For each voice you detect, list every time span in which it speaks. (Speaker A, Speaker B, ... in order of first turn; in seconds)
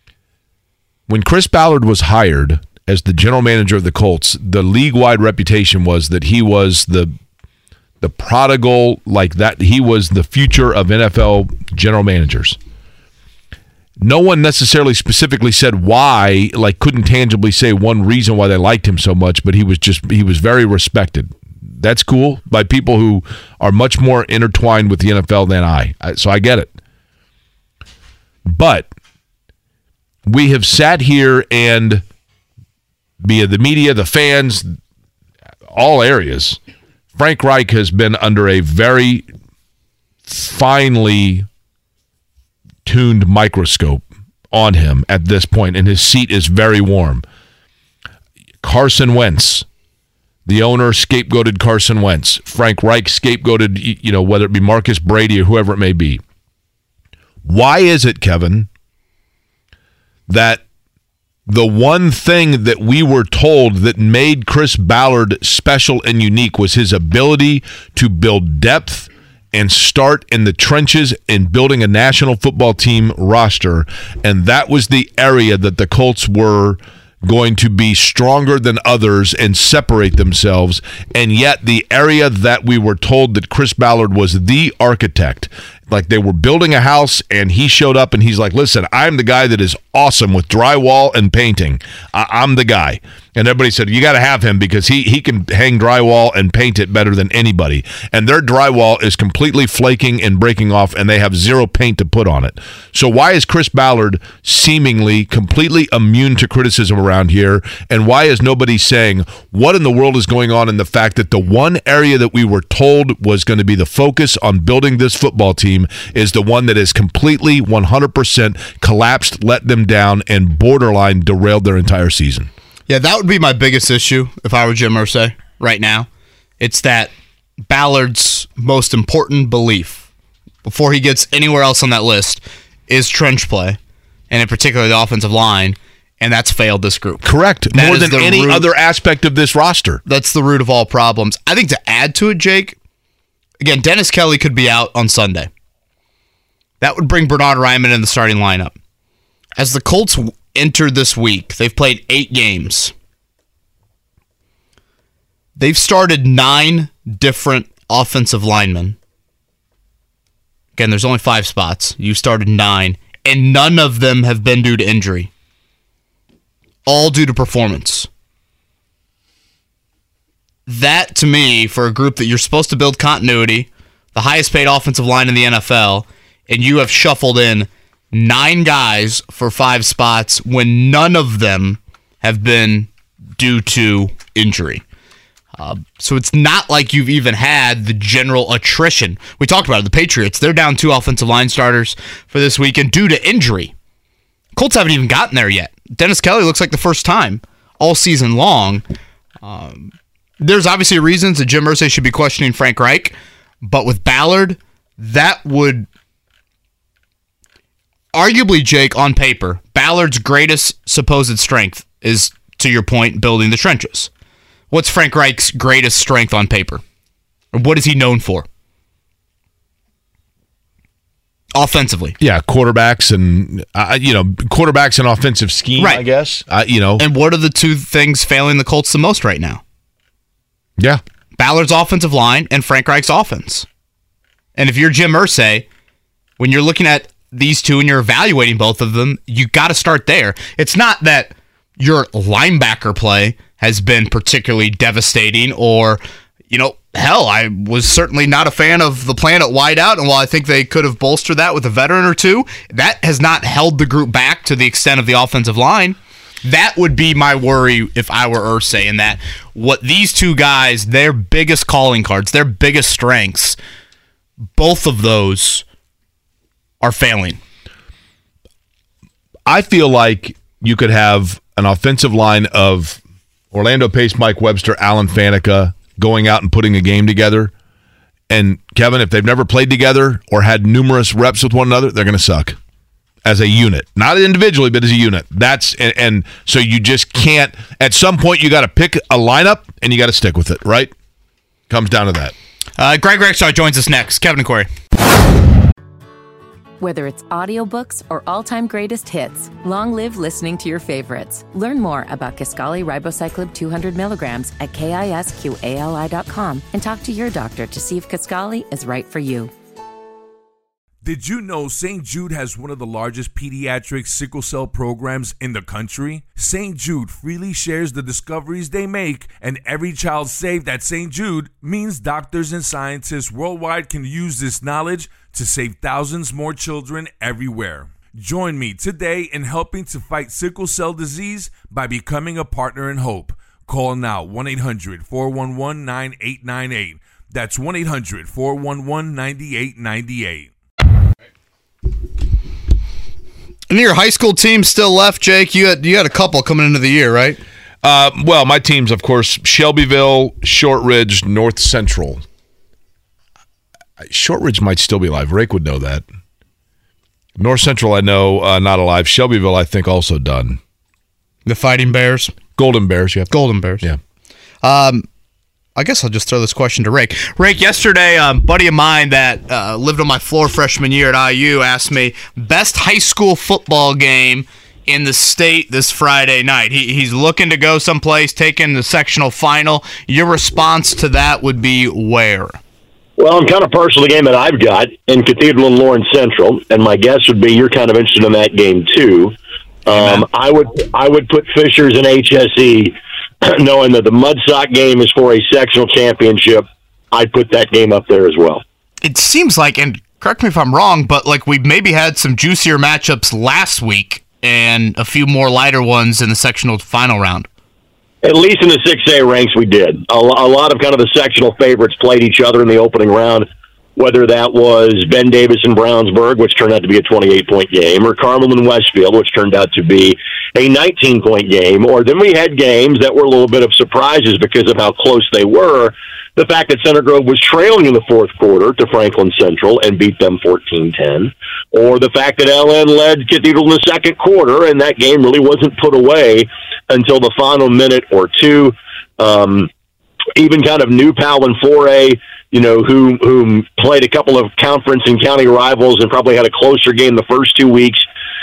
Speaker A: 1.1-7.1, 8.0-12.6, 14.0-26.7, 28.4-28.9, 30.2-32.0, 33.2-34.8, 35.7-36.6, 37.1-39.3, 40.3-41.5, 42.8-47.2, 48.6-49.6, 50.5-56.2, 57.4-58.7, 60.3-60.6, 61.5-122.5, 137.2-140.0, 222.2-227.1, 269.4-273.0, 273.5-277.5, 278.3-282.6, 283.2-290.9, 291.7-292.3, 347.8-352.2, 354.0-356.0, 357.4-360.6, 362.6-364.0
Speaker B: 122.9-126.1, 126.6-130.1, 130.6-133.8, 134.3-138.7, 140.1-142.8, 143.6-145.5, 146.8-148.7, 149.6-152.9, 155.6-159.0, 160.8-165.3, 166.8-168.1, 170.7-184.8, 185.6-193.7, 194.5-198.8, 199.4-205.9, 208.1-214.1, 214.7-216.8, 217.5-218.4, 221.5-222.2, 225.8-226.0, 227.0-229.6, 231.4-233.7, 234.6-235.7, 236.4-263.6, 264.5-265.6, 266.8-267.4, 292.8-294.7, 343.7-347.4, 361.4-362.3, 363.3-363.8, 364.6-365.1, 365.7-382.6, 389.9-390.2, 399.0-407.5
Speaker C: 296.8-309.5
Speaker D: 311.0-340.5
Speaker E: 383.2-389.3, 389.9-398.6, 408.2-439.7, 440.4-448.1